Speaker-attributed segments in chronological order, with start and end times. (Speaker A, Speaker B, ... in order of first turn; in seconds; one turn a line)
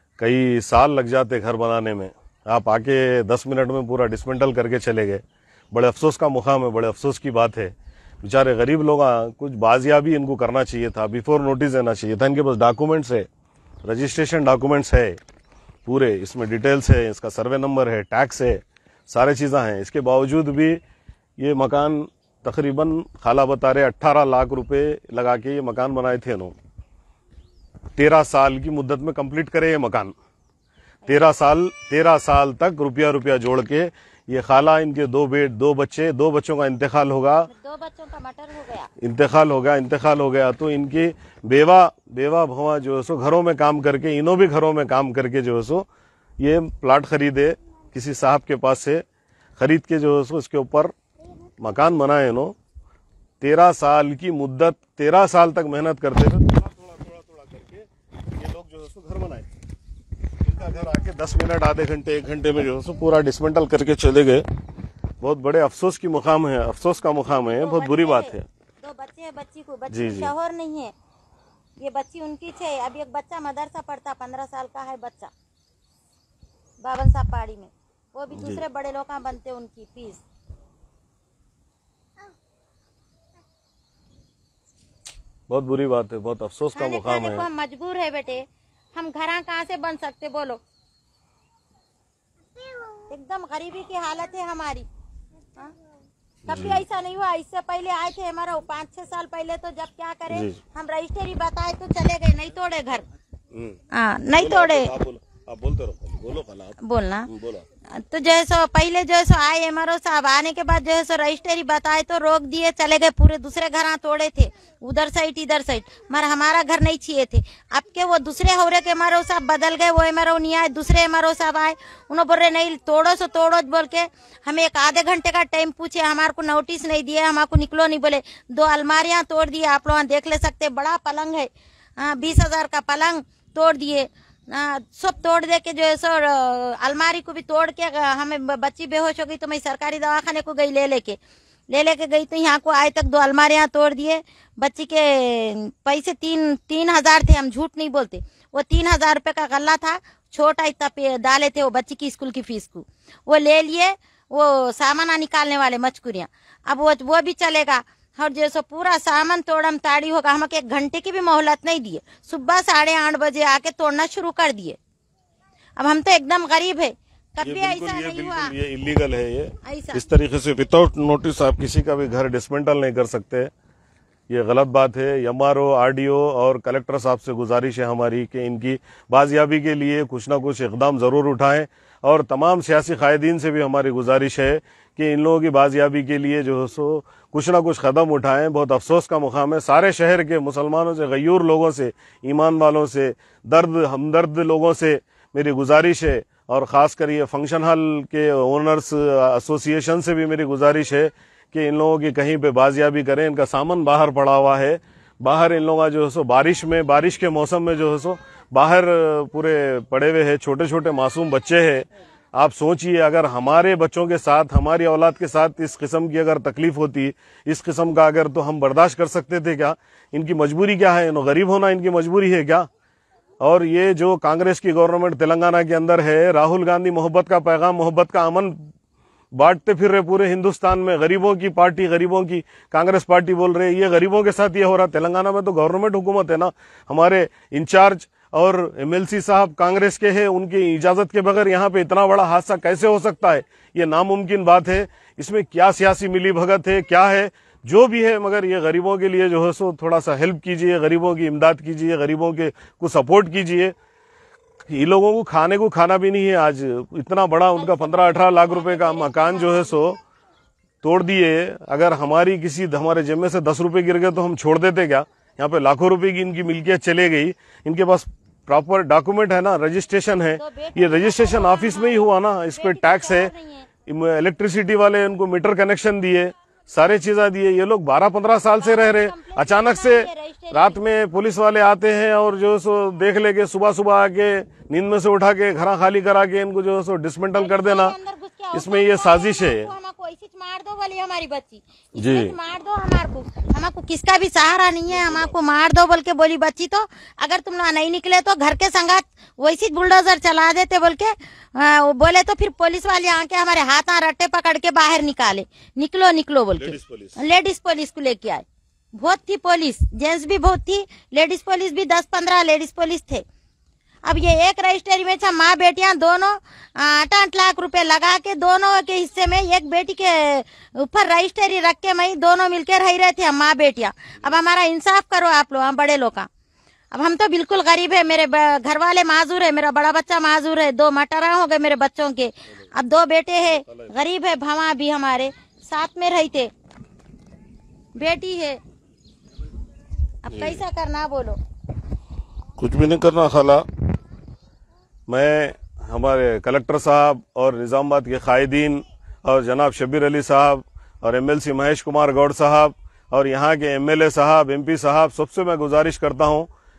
Speaker A: 0.2-13.3
Speaker A: 13.8-15.2
Speaker A: 15.8-20.8
Speaker A: 21.4-26.5
Speaker A: 27.9-30.1
Speaker B: 31.0-31.3
Speaker A: 31.1-37.5
Speaker B: 37.5-38.9
Speaker A: 39.0-45.9
Speaker A: 46.4-49.0
Speaker A: 49.6-50.9
Speaker A: 51.6-52.5
Speaker A: 53.4-59.5
Speaker A: 60.4-64.4
Speaker A: 65.2-68.4
Speaker B: 67.2-70.9
Speaker A: 69.9-70.3
Speaker B: 71.8-75.3
Speaker B: 76.8-80.2
Speaker A: 85.5-87.5
Speaker B: 86.7-90.6
Speaker B: 93.1-94.8
Speaker B: 96.5-103.0
Speaker A: 96.5-96.8
Speaker A: 100.3-100.6
Speaker A: 103.5-103.8
Speaker B: 103.9-104.9
Speaker A: 104.3-106.8
Speaker B: 106.8-107.3
Speaker A: 107.3-107.6
Speaker B: 107.9-141.2
Speaker B: 141.7-164.8
Speaker B: 165.8-168.5
Speaker A: 167.4-173.5
Speaker B: 169.6-170.1
Speaker A: 174.3-222.7
Speaker A: 223.4-228.7
Speaker A: 229.3-253.7
Speaker A: 254.7-260.0
Speaker B: 257.6-259.8
Speaker A: 260.8-273.3
Speaker B: 270.4-273.7
Speaker A: 273.9-287.9
Speaker B: 278.5-280.8
Speaker B: 287.3-313.2
Speaker A: 288.5-289.7
Speaker A: 292.0-292.3
Speaker A: 294.9-295.3
Speaker A: 306.6-307.2
Speaker B: 314.0-326.3
Speaker B: 326.9-336.5
Speaker A: 333.4-333.9
Speaker B: 337.9-338.6
Speaker B: 340.2-341.4
Speaker A: 340.3-340.6
Speaker A: 342.6-343.6
Speaker A: 345.1-356.5